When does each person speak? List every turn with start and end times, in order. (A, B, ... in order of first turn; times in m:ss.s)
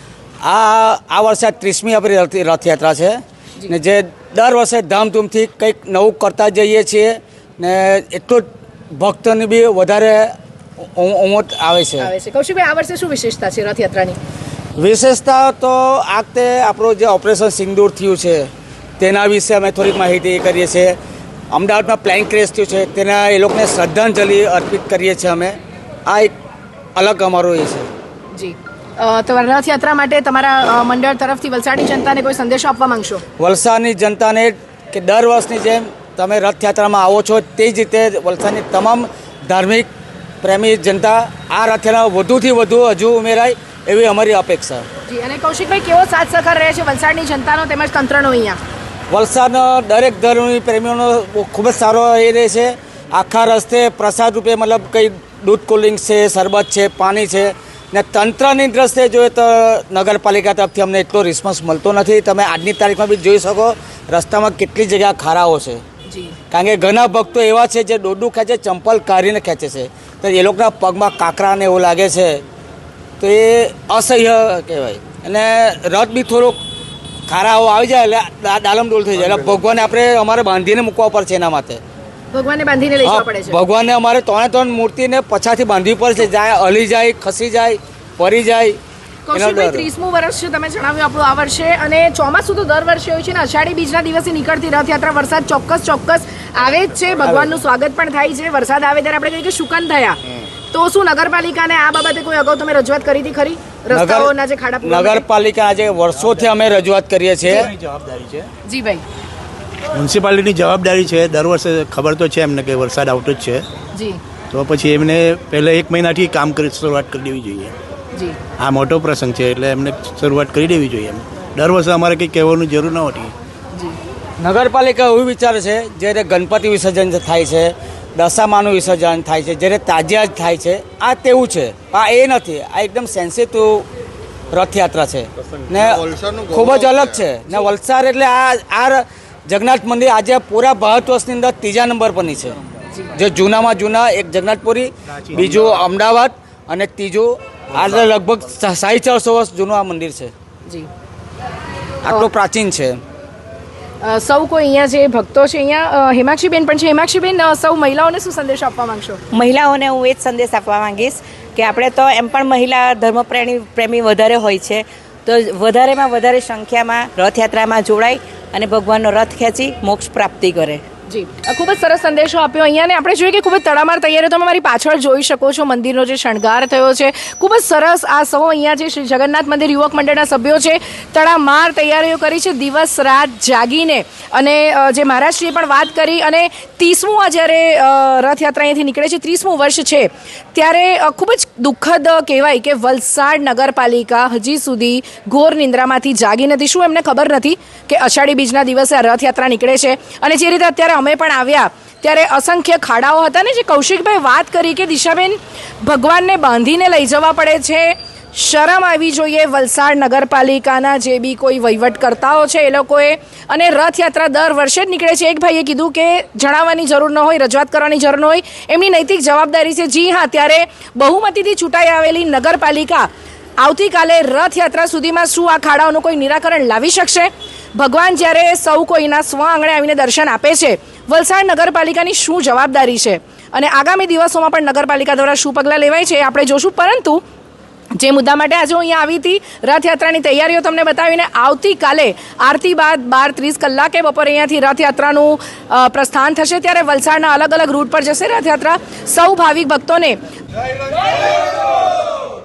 0:00.4-0:12.1 A
0:12.0-0:14.2 B
0:14.8-0:21.0 A
0:21.5-0:26.3 A
0:27.0-0:27.9 A
0:28.3-0:33.2 B
0:33.4-0:39.9 A
0:40.4-0:44.8 A
0:45.1-0:48.6 B
0:49.1-1:05.8 A
1:06.1-1:06.4 B
1:06.5-1:12.4 A
1:13.2-1:16.6 A
1:17.3-1:21.8 A
1:22.3-1:23.6 B
1:23.0-1:28.8 A
1:29.3-1:40.2 B
1:29.3-1:29.8 A
1:40.7-1:45.2 B
1:43.9-1:47.7 A
1:47.8-1:48.4 C
1:48.7-1:49.0 B
1:50.0-1:53.6 C
1:54.5-1:57.7 C
1:58.6-2:03.3 C
2:04.4-2:13.9 A
2:14.5-2:22.6 A
2:23.1-2:30.3 A
2:32.0-2:33.0 A
2:34.0-2:39.2 B
2:39.3-2:50.8 D
2:51.1-3:43.1 B
3:43.6-3:57.2 B
3:57.9-4:10.2 B
4:11.5-4:12.1 A